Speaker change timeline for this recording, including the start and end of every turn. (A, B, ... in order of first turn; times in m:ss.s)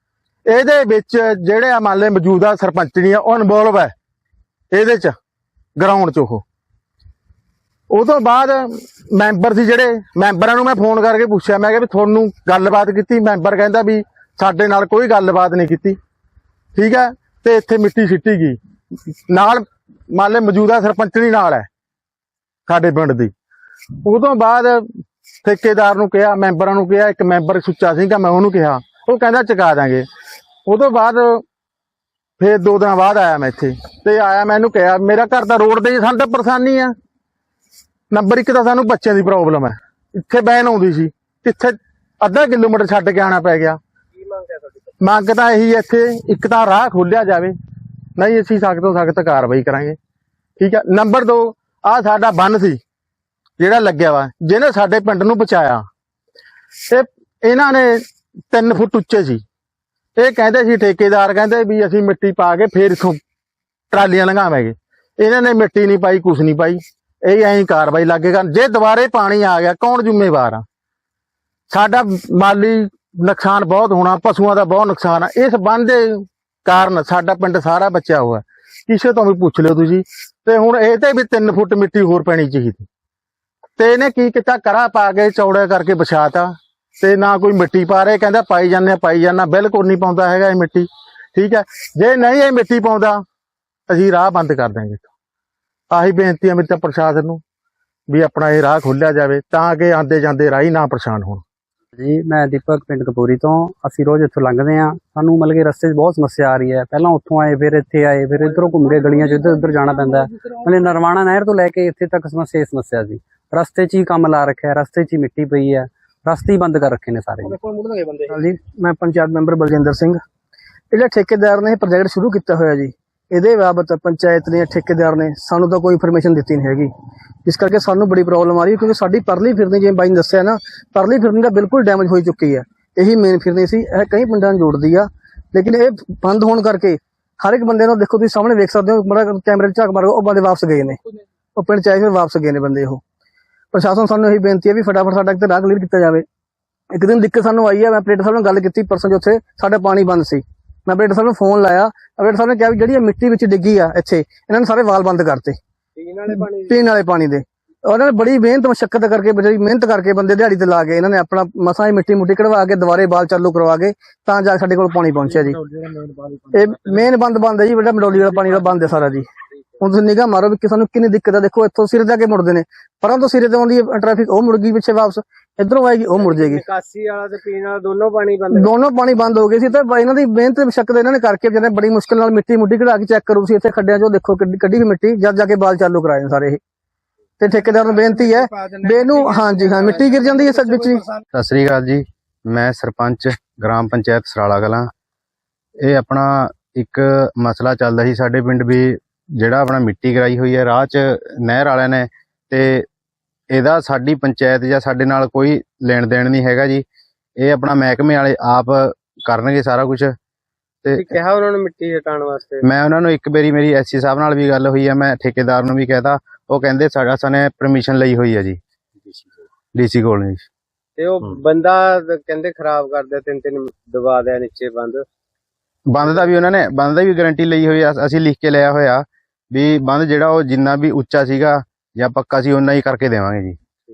0:00.5-0:03.9 A
0:04.7-0:05.2 A
0:05.8-0:06.4 A
0:07.9-0:16.0 A
0:16.8-0:18.6 A
0:19.3-0:21.7 A
0:22.7-0:23.3 A
0:24.0-0:24.9 A
0:25.4-0:30.1 A
0:30.7-0:31.4 A
0:32.4-0:36.9 A
0:38.1-0:43.8 A
0:44.1-0:45.0 B
0:45.0-0:47.5 A
0:48.2-0:50.0 A
0:50.6-0:52.8 A
0:53.6-0:55.8 A
0:56.9-0:59.4 A
1:00.2-1:03.2 A
1:03.9-1:10.6 A
1:11.7-1:22.9 A
1:23.8-1:33.2 A
1:33.9-1:35.0 A
1:35.9-1:37.4 A
1:38.1-1:41.4 A
1:41.9-1:57.6 C
1:58.3-2:00.2 D
2:00.9-2:06.9 D
2:07.5-2:21.0 D
2:21.6-2:23.0 D
2:23.7-2:26.2 D
2:26.9-2:35.6 D
2:36.0-2:36.8 B
2:36.3-2:45.6 D
2:46.5-2:49.2 D
2:49.8-2:56.6 D
2:56.2-2:58.7 B
2:58.6-3:06.6 D
3:07.4-3:11.0 D
3:11.3-3:14.9 E
3:15.8-3:22.9 E
3:23.5-3:26.8 E
3:27.4-3:30.2 E
3:30.8-3:31.1 E
3:31.0-3:32.6 B
3:32.6-3:38.6 E
3:39.8-3:40.5 E
3:41.0-3:45.1 B
3:45.9-3:53.6 E
3:46.0-3:46.3 B